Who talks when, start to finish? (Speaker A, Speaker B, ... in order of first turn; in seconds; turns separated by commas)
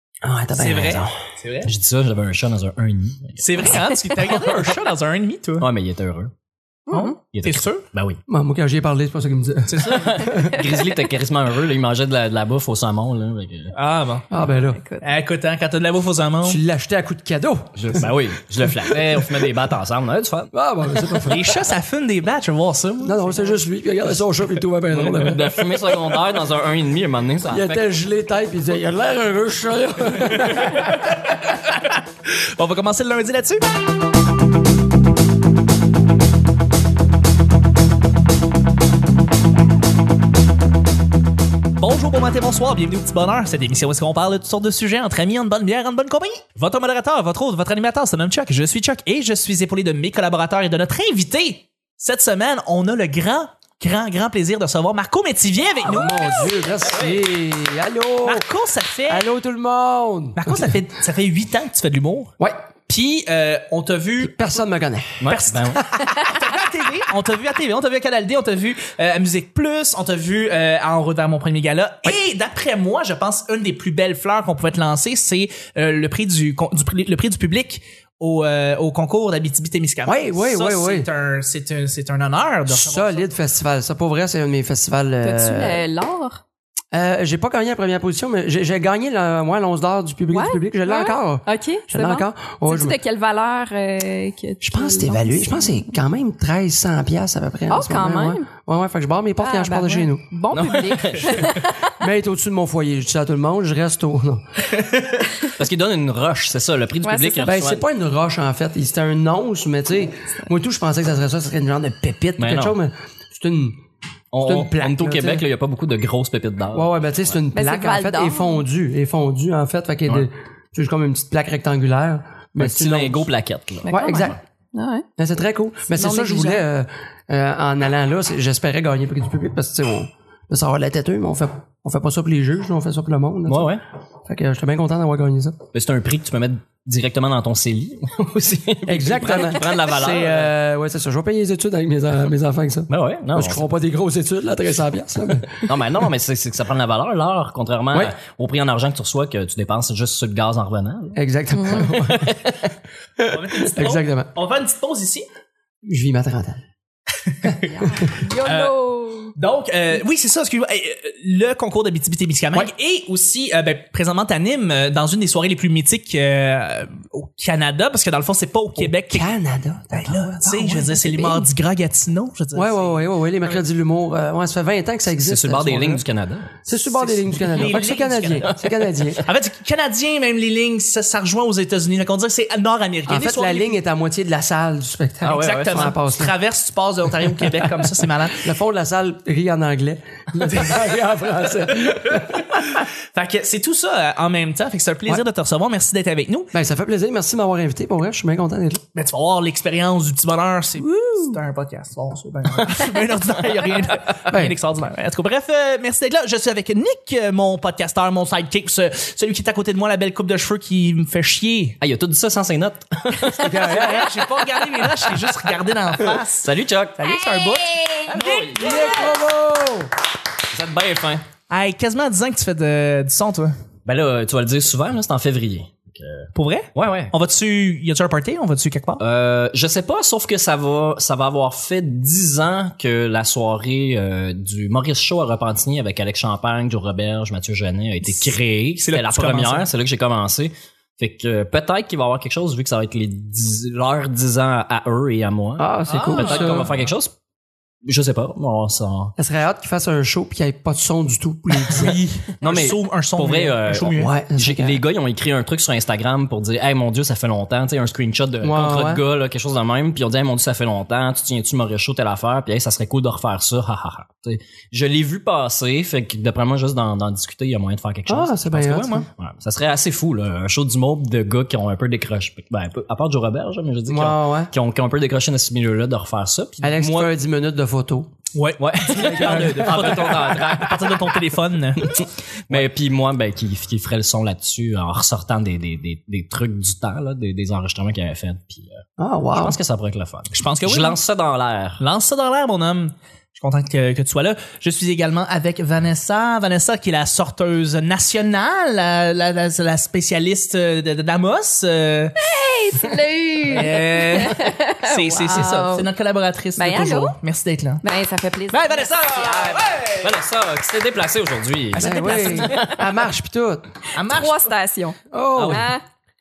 Speaker A: 0.2-1.1, Speaker B: 0.6-1.7, Speaker C: 1.6-3.8, Speaker B: 3.4-5.7, Speaker C: 5.6-6.3, Speaker D: 6.9-7.2, Speaker B: 6.9-7.9, Speaker C: 7.3-8.2, Speaker A: 8.3-10.6, Speaker B: 9.7-10.2, Speaker C: 9.9-13.7, Speaker B: 13.7-14.3, Speaker A: 14.3-14.8, Speaker D: 14.3-15.1, Speaker B: 15.0-16.6, Speaker A: 16.4-19.5, Speaker C: 17.8-21.4, Speaker A: 20.5-21.5, Speaker B: 21.2-23.3, Speaker A: 23.0-25.7, Speaker C: 24.9-27.9, Speaker A: 27.5-31.1, Speaker B: 30.3-33.6, Speaker B: 41.8-56.5, Speaker A: 55.9-58.5, Speaker C: 56.8-57.2, Speaker B: 58.2-59.3, Speaker A: 59.1-60.8, Speaker B: 60.4-62.3, Speaker B: 62.9-64.5, Speaker A: 64.2-66.0, Speaker C: 65.2-65.8, Speaker B: 65.3-83.3, Speaker A: 80.1-81.1, Speaker A: 82.7-85.9, Speaker D: 85.2-86.4, Speaker A: 86.9-93.0, Speaker D: 90.3-95.9, Speaker A: 94.6-100.3, Speaker D: 97.7-98.5, Speaker D: 99.4-102.0, Speaker C: 100.5-101.6, Speaker A: 101.5-104.4, Speaker C: 105.5-107.8, Speaker D: 107.0-107.6, Speaker A: 107.4-113.8, Speaker C: 112.4-112.8, Speaker C: 114.3-116.9, Speaker A: 114.4-115.5, Speaker A: 116.7-123.3, Speaker D: 117.5-118.6, Speaker C: 122.6-124.3, Speaker D: 123.8-125.1, Speaker A: 123.9-124.4, Speaker A: 125.2-135.6, Speaker D: 125.9-126.6, Speaker C: 133.5-133.8, Speaker C: 135.7-140.5, Speaker A: 138.9-145.7, Speaker C: 142.9-143.7, Speaker C: 145.5-151.2, Speaker A: 151.2-154.3, Speaker D: 151.6-151.8, Speaker C: 151.8-152.5, Speaker B: 153.3-155.3, Speaker A: 155.8-156.6, Speaker B: 157.3-158.7, Speaker D: 157.7-159.3, Speaker B: 159.3-169.3, Speaker A: 168.8-171.4, Speaker B: 169.9-173.6, Speaker A: 172.5-176.0, Speaker C: 175.2-176.7, Speaker A: 176.7-179.3, Speaker B: 177.0-178.5, Speaker C: 178.5-178.8, Speaker B: 179.2-183.8, Speaker A: 183.1-186.3, Speaker C: 185.2-186.0, Speaker B: 185.3-188.5, Speaker A: 188.4-192.8, Speaker B: 192.0-196.5, Speaker A: 196.5-198.8, Speaker B: 198.9-211.8, Speaker A: 204.3-204.6, Speaker C: 211.8-213.9, Speaker A: 213.4-214.4, Speaker B: 213.5-218.8, Speaker C: 216.3-217.1, Speaker D: 217.1-219.1, Speaker C: 218.1-218.9, Speaker A: 218.5-219.9, Speaker C: 220.5-221.2, Speaker B: 221.5-223.5, Speaker C: 223.9-227.1, Speaker B: 226.3-229.0, Speaker C: 229.0-247.1, Speaker B: 238.8-239.7, Speaker A: 245.6-246.7, Speaker B: 245.9-246.8, Speaker C: 247.8-249.1, Speaker A: 249.2-252.1, Speaker B: 251.7-254.1, Speaker C: 252.4-277.1, Speaker A: 254.0-254.8, Speaker A: 258.4-259.0, Speaker A: 268.1-269.0, Speaker B: 268.7-269.0, Speaker A: 273.9-274.5, Speaker A: 276.6-278.1, Speaker B: 278.3-282.7, Speaker C: 278.6-281.2, Speaker A: 278.9-280.1, Speaker C: 281.8-288.8, Speaker A: 289.0-289.6, Speaker C: 289.3-291.8, Speaker B: 290.3-291.0, Speaker B: 291.8-302.2, Speaker D: 302.2-305.9, Speaker B: 303.5-307.8, Speaker D: 306.6-307.2, Speaker D: 307.8-309.8, Speaker B: 308.5-310.1, Speaker C: 310.0-312.8, Speaker B: 311.7-312.7, Speaker A: 311.8-313.7, Speaker B: 313.9-314.5, Speaker D: 314.0-315.8, Speaker A: 315.1-315.7, Speaker C: 315.4-315.7